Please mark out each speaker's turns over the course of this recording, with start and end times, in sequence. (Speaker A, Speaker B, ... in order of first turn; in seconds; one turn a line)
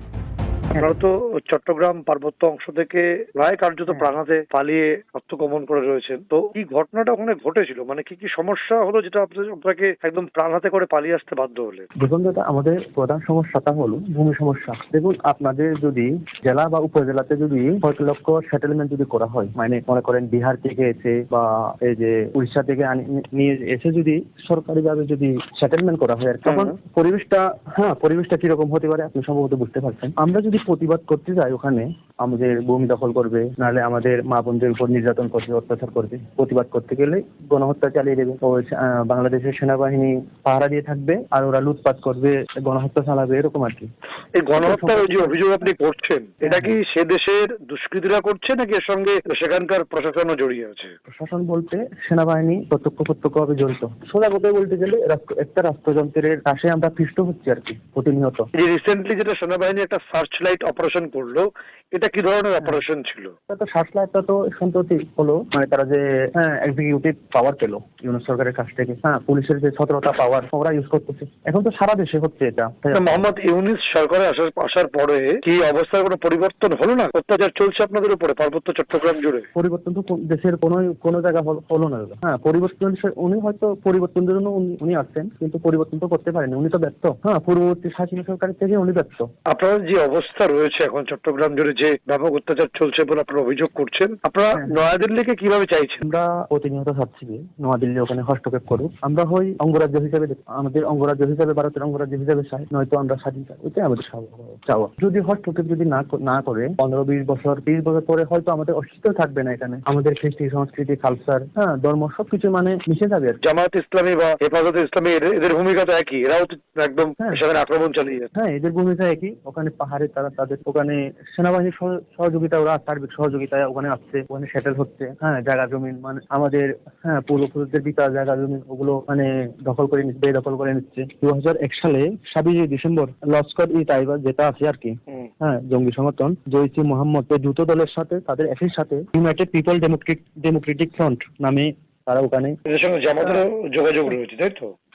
Speaker A: 0.8-11.9
Speaker B: 12.0-43.9
Speaker A: 44.3-50.9
Speaker B: 44.5-45.4
Speaker B: 46.4-46.7
Speaker B: 51.1-58.5
Speaker A: 58.5-63.3
Speaker B: 63.5-73.2
Speaker A: 72.9-79.5
Speaker B: 79.5-89.3
Speaker A: 89.5-96.0
Speaker B: 96.0-113.4
Speaker A: 113.4-118.3
Speaker B: 118.3-142.6
Speaker A: 142.7-144.7